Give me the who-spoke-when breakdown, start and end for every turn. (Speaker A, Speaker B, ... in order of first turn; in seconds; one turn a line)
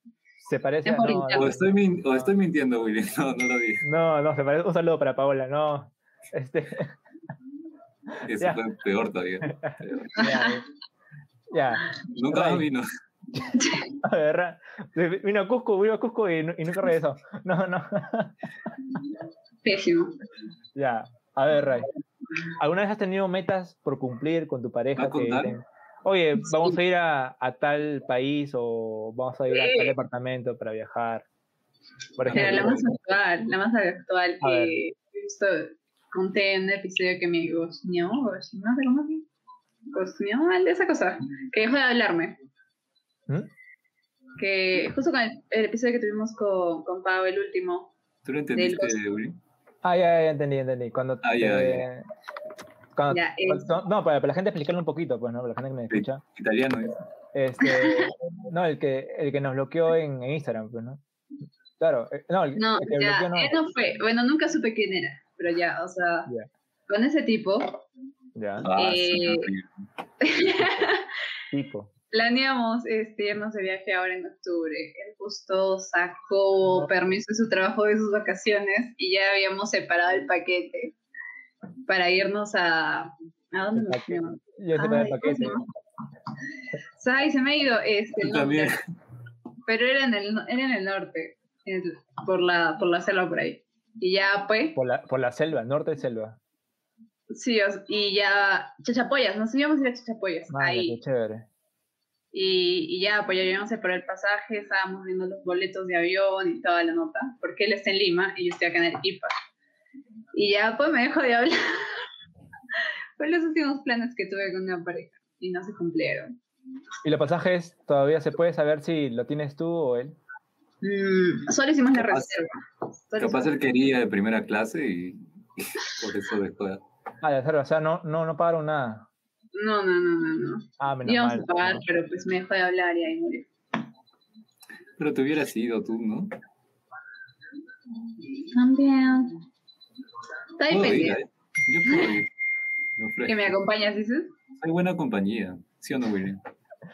Speaker A: 0.4-1.5
Speaker B: 0.8-1.6
Speaker C: 1.3-3.8
Speaker A: 3.8-6.9
Speaker C: 8.2-10.2
Speaker A: 9.4-10.6
Speaker B: 10.2-10.6
Speaker A: 11.5-12.7
Speaker C: 12.1-12.8
Speaker B: 13.5-13.9
Speaker A: 14.0-18.4
Speaker B: 19.6-20.1
Speaker A: 20.8-21.9
Speaker A: 22.6-31.3
Speaker C: 25.0-25.6
Speaker B: 29.5-29.9
Speaker A: 32.2-32.8
Speaker C: 32.2-32.9
Speaker B: 32.3-39.3
Speaker A: 34.4-34.8
Speaker B: 39.9-42.4
Speaker B: 44.4-47.9
Speaker C: 48.2-49.4
Speaker B: 48.5-49.0
Speaker A: 49.8-52.1
Speaker C: 51.2-51.9
Speaker A: 53.0-56.2
Speaker B: 53.1-53.7
Speaker C: 55.9-57.0
Speaker A: 57.3-61.0
Speaker B: 57.6-58.1
Speaker A: 61.8-63.5
Speaker B: 62.6-66.3
Speaker B: 66.9-67.8
Speaker A: 68.4-68.7
Speaker C: 68.6-69.7
Speaker B: 68.7-69.5
Speaker B: 70.2-71.1
Speaker C: 70.5-70.8
Speaker A: 71.5-71.9
Speaker B: 72.1-81.0
Speaker B: 81.9-85.6
Speaker A: 83.8-85.6
Speaker B: 87.0-88.7
Speaker C: 88.2-88.8
Speaker B: 89.7-94.8
Speaker A: 94.8-96.4
Speaker B: 97.3-101.0
Speaker A: 100.5-101.5
Speaker B: 102.3-109.3
Speaker B: 110.3-112.0
Speaker B: 113.2-116.3
Speaker A: 117.0-120.2
Speaker B: 120.8-123.7
Speaker C: 122.0-122.3
Speaker C: 123.2-126.8
Speaker A: 127.2-129.1
Speaker B: 129.6-133.5
Speaker A: 130.8-131.8
Speaker C: 135.0-136.3
Speaker B: 138.5-139.3
Speaker B: 140.6-141.2
Speaker C: 140.7-142.3
Speaker C: 143.0-143.6
Speaker B: 143.3-144.3
Speaker C: 144.6-146.4